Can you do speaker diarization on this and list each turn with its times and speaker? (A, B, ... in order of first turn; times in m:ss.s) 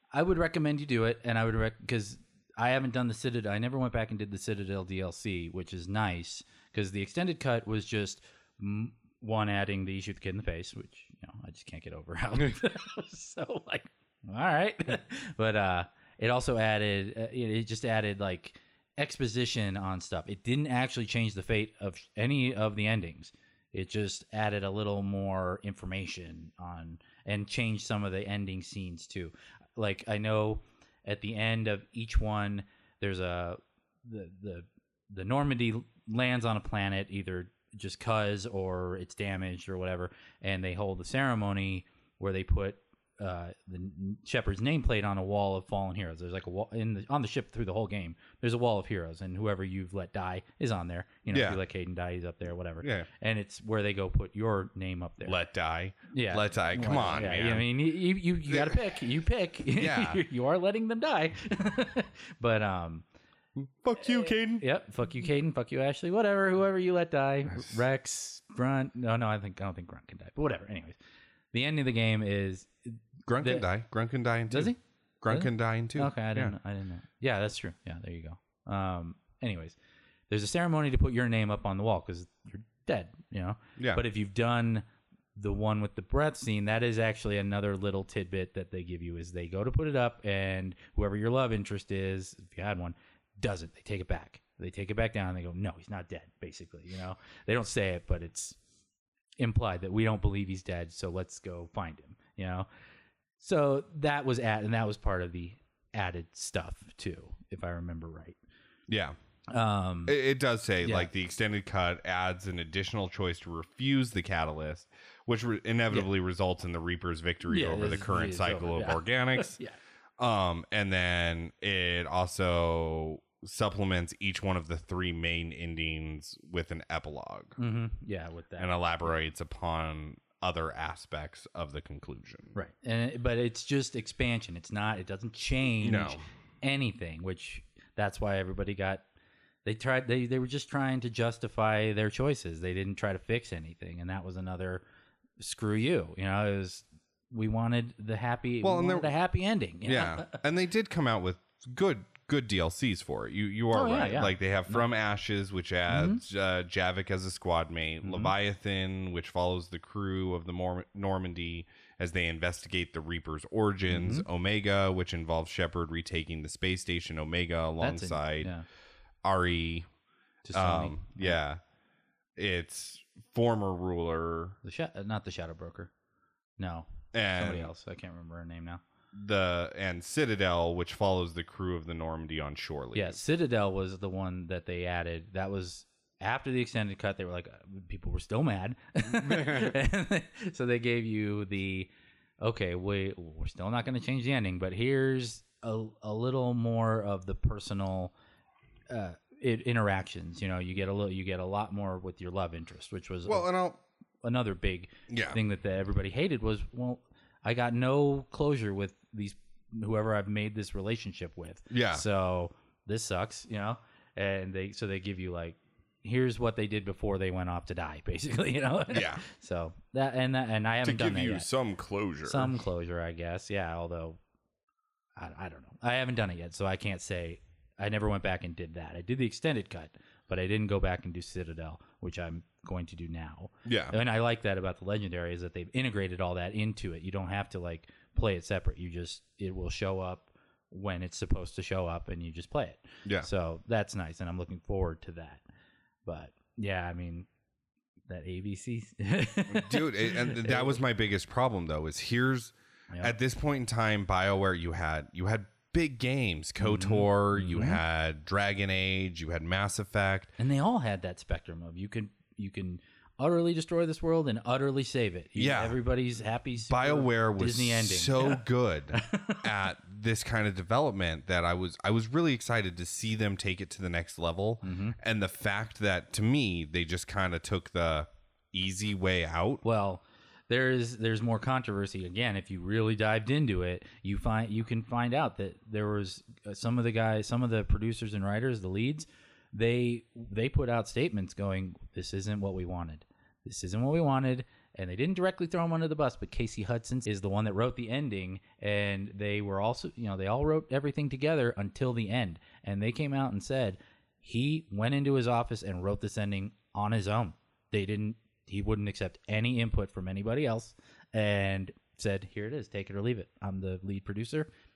0:00.1-0:55.4 A
0:51.3-0:51.6 B
0:52.8-0:53.1 B
0:55.2-0:57.7 B
0:56.1-1:03.0 A
0:58.5-0:58.8 B
0:59.7-1:00.2 B
1:03.6-1:04.6 B
1:04.0-1:11.0 A
1:11.5-1:13.7 A
1:13.2-1:16.5 B
1:14.5-1:19.8 A
1:20.3-1:24.8 A
1:23.8-1:24.0 B
1:25.4-1:38.6 A
1:39.4-1:42.7 A
1:43.4-1:48.4 A
1:48.9-1:49.1 B
1:49.5-1:50.2 A
1:50.0-1:59.6 B
1:50.8-1:51.1 A
1:57.5-1:59.8 A
2:00.2-2:07.6 B
2:07.6-2:08.7 A
2:08.6-2:12.5 B
2:12.5-2:19.0 A
2:15.8-2:16.2 B
2:19.6-2:24.8 A
2:25.4-2:30.4 A
2:28.6-2:29.1 B
2:29.8-2:48.5 B
2:33.7-2:34.8 A
2:35.9-2:36.2 A
2:38.0-2:38.3 A
2:43.9-2:44.2 A
2:47.8-2:48.6 A
2:49.2-2:49.8 B
2:50.4-2:51.4 A
2:50.5-2:51.6 B
2:52.4-2:54.6 B
2:54.6-2:55.9 A
2:56.6-2:58.8 A
2:57.1-2:57.7 B
2:59.1-3:03.2 B
3:02.9-3:11.9 A
3:12.4-3:18.1 A
3:18.9-3:23.5 A
3:23.3-3:23.8 B
3:24.2-3:41.5 A
3:25.1-3:25.4 B
3:31.7-3:32.0 B
3:38.9-3:39.2 B
3:40.8-3:42.6 B
3:42.2-3:44.2 A
3:45.2-4:05.4 A
3:53.6-3:53.9 B
4:06.0-4:07.3 A
4:08.1-4:10.8 A
4:09.5-4:20.3 B
4:16.6-4:17.8 A
4:20.4-4:29.4 A
4:25.4-4:25.8 B
4:26.7-4:39.6 B
4:34.6-4:35.0 A
4:39.6-5:14.5 A